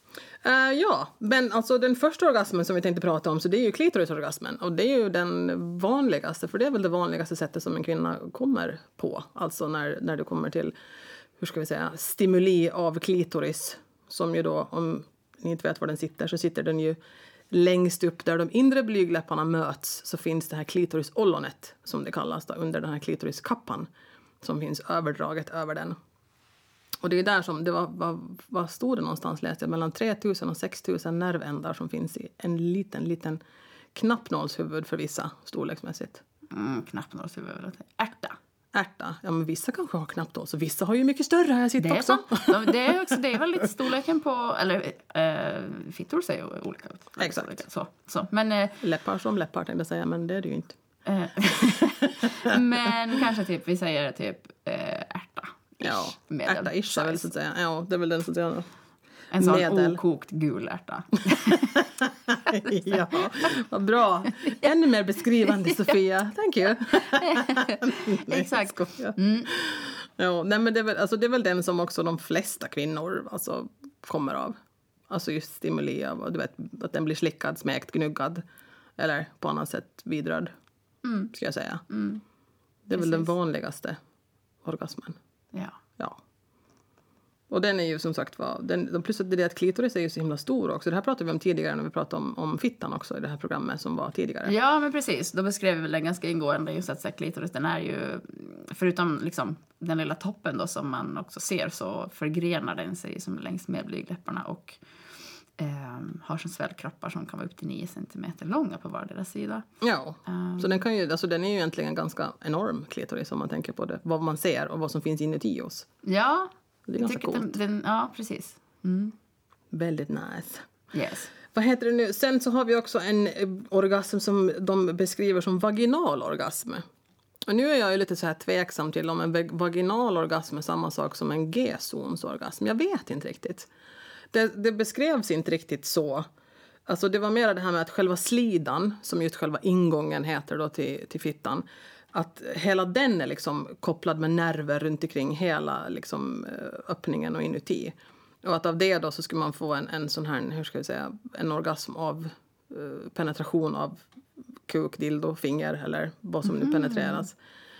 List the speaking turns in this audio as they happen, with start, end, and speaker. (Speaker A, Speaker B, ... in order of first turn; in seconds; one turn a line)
Speaker A: 0.4-10.8
Speaker A: 11.4-17.0
Speaker A: 17.5-23.9
Speaker A: 24.4-26.0
Speaker A: 27.0-33.4
Speaker A: 33.9-36.2
Speaker B: 36.5-38.4
Speaker A: 38.7-43.2
Speaker B: 41.8-48.8
Speaker A: 47.2-47.6
Speaker A: 48.8-50.8
Speaker B: 51.1-57.3
Speaker A: 52.2-52.6
Speaker A: 55.8-58.7
Speaker B: 59.3-61.8
Speaker A: 59.4-60.0
Speaker A: 61.8-74.6
Speaker B: 62.5-63.2
Speaker B: 65.5-65.9
Speaker B: 67.0-69.5
Speaker A: 75.1-78.4
Speaker A: 79.0-80.5
Speaker B: 81.0-81.3
Speaker A: 81.3-81.8
Speaker B: 81.9-82.2
Speaker A: 82.9-84.0
Speaker B: 82.9-83.3
Speaker A: 84.6-85.2
Speaker A: 87.5-94.5
Speaker B: 94.5-104.8
Speaker B: 105.6-109.7
Speaker A: 109.8-115.9
Speaker B: 110.3-110.8
Speaker B: 116.0-119.2
Speaker A: 116.9-117.6
Speaker A: 119.7-120.7
Speaker B: 120.9-121.3
Speaker A: 121.5-126.8
Speaker A: 127.5-133.7
Speaker A: 134.3-136.3
Speaker A: 136.9-154.0
Speaker A: 154.7-157.3
Speaker B: 156.4-157.3